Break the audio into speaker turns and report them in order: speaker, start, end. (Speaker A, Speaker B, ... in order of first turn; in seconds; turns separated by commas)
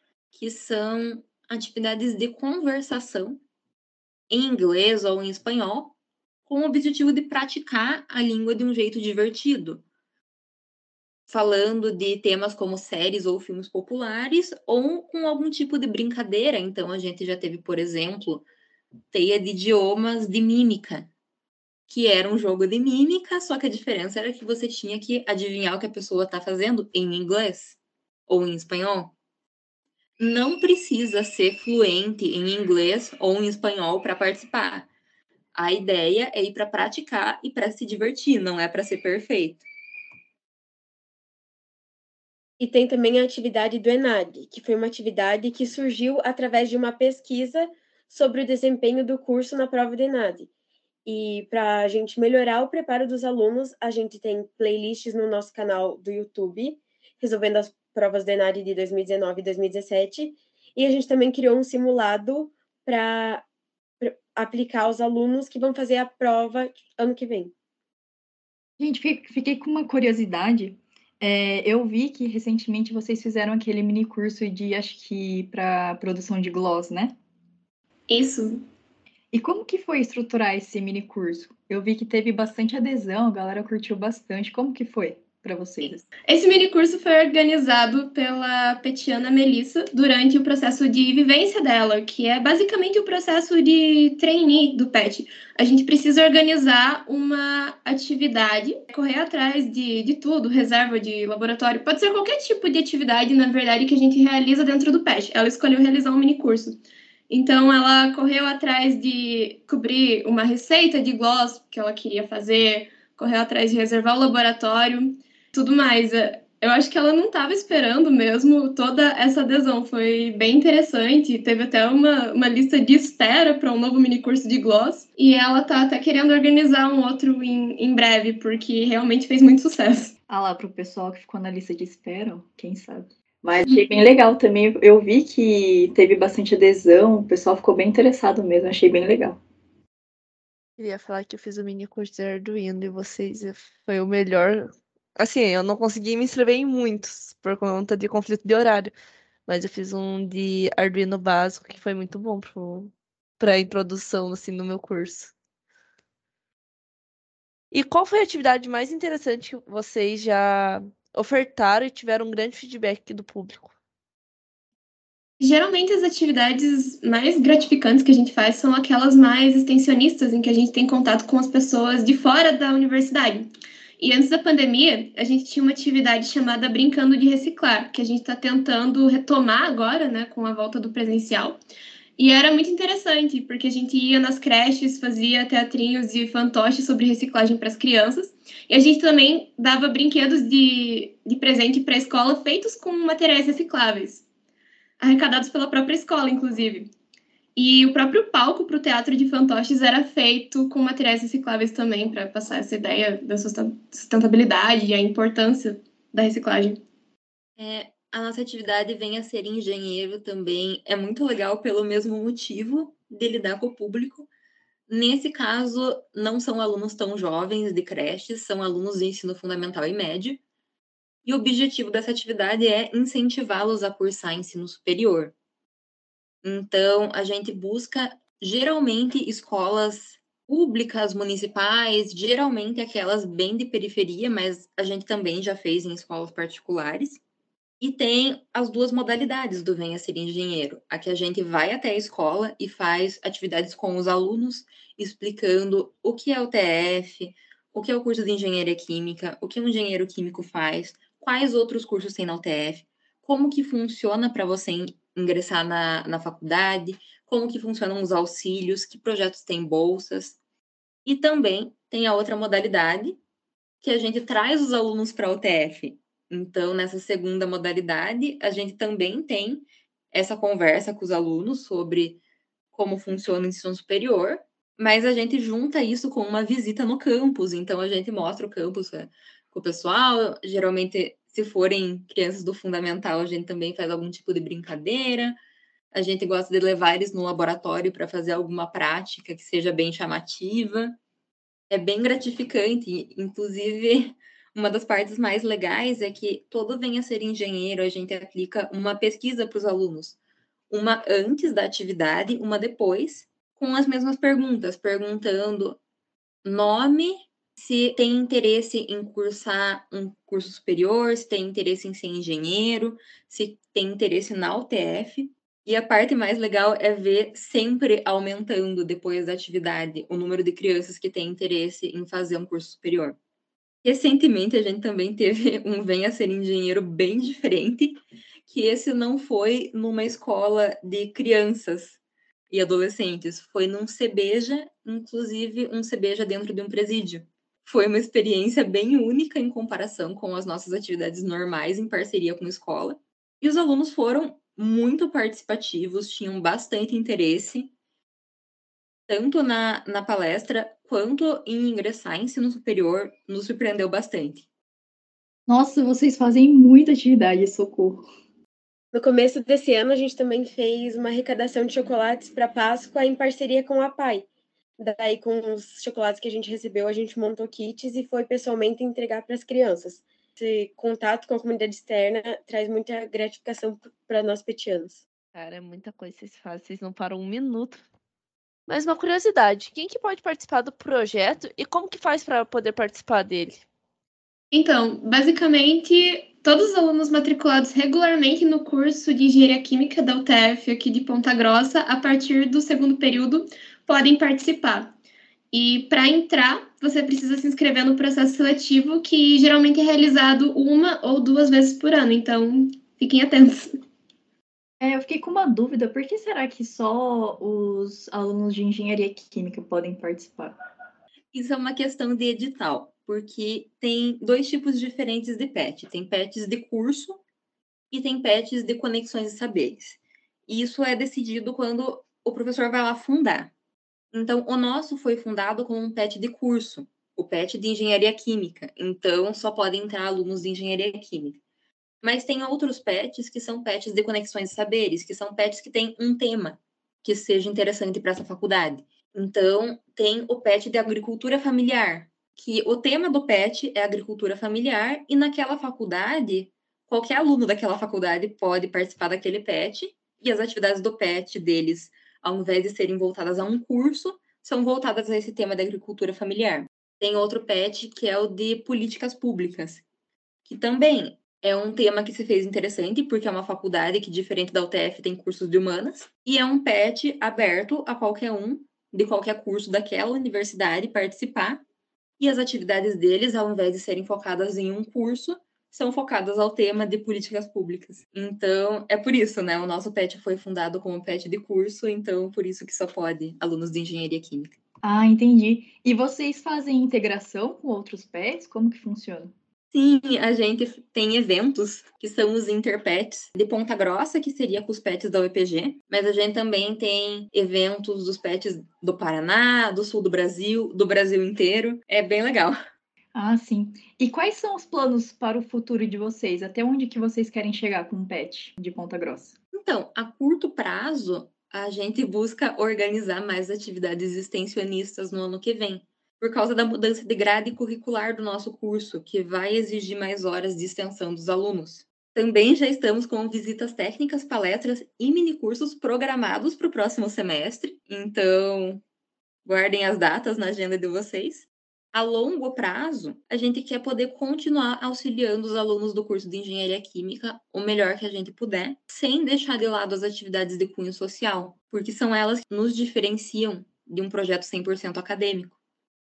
Speaker A: 0.3-3.4, Speaker A: 4.3-6.0, Speaker A: 6.5-9.8, Speaker A: 11.3-18.4, Speaker A: 19.1-21.1, Speaker A: 21.9-29.1, Speaker A: 30.2-34.9, Speaker A: 35.5-39.6, Speaker B: 42.6-50.5, Speaker B: 51.0-63.5, Speaker B: 64.0-67.5, Speaker C: 68.8-77.1, Speaker D: 78.1-78.6, Speaker C: 79.3-86.1, Speaker D: 85.8-106.8, Speaker D: 107.3-130.1, Speaker C: 130.3-139.4, Speaker E: 140.8-148.9, Speaker E: 149.5-155.3, Speaker E: 157.7-163.7, Speaker D: 165.4-173.5, Speaker D: 174.0-181.6, Speaker D: 182.2-194.2, Speaker D: 195.0-196.9, Speaker D: 197.6-206.8, Speaker A: 207.6-214.3, Speaker A: 214.9-220.4, Speaker A: 221.2-225.3, Speaker A: 226.4-237.2, Speaker A: 237.8-260.4, Speaker A: 261.1-263.2, Speaker A: 263.8-272.2, Speaker A: 272.7-285.4, Speaker A: 285.9-291.0, Speaker A: 291.7-300.2, Speaker A: 300.7-305.8, Speaker A: 306.4-323.2, Speaker A: 323.8-332.0, Speaker A: 332.5-347.7, Speaker A: 349.1-354.5, Speaker C: 355.5-358.1, Speaker B: 358.9-364.3, Speaker B: 364.8-375.0, Speaker E: 375.4-377.8, Speaker E: 378.7-383.6, Speaker D: 384.5-394.9, Speaker D: 395.5-403.7, Speaker C: 404.8-410.6, Speaker A: 411.3-417.2, Speaker A: 417.9-423.5, Speaker A: 424.1-431.4, Speaker A: 432.0-459.8, Speaker A: 460.4-471.6, Speaker A: 472.2-484.6, Speaker C: 484.8-489.3, Speaker A: 489.7-502.6, Speaker C: 503.1-509.4, Speaker A: 509.5-528.8, Speaker A: 529.5-545.6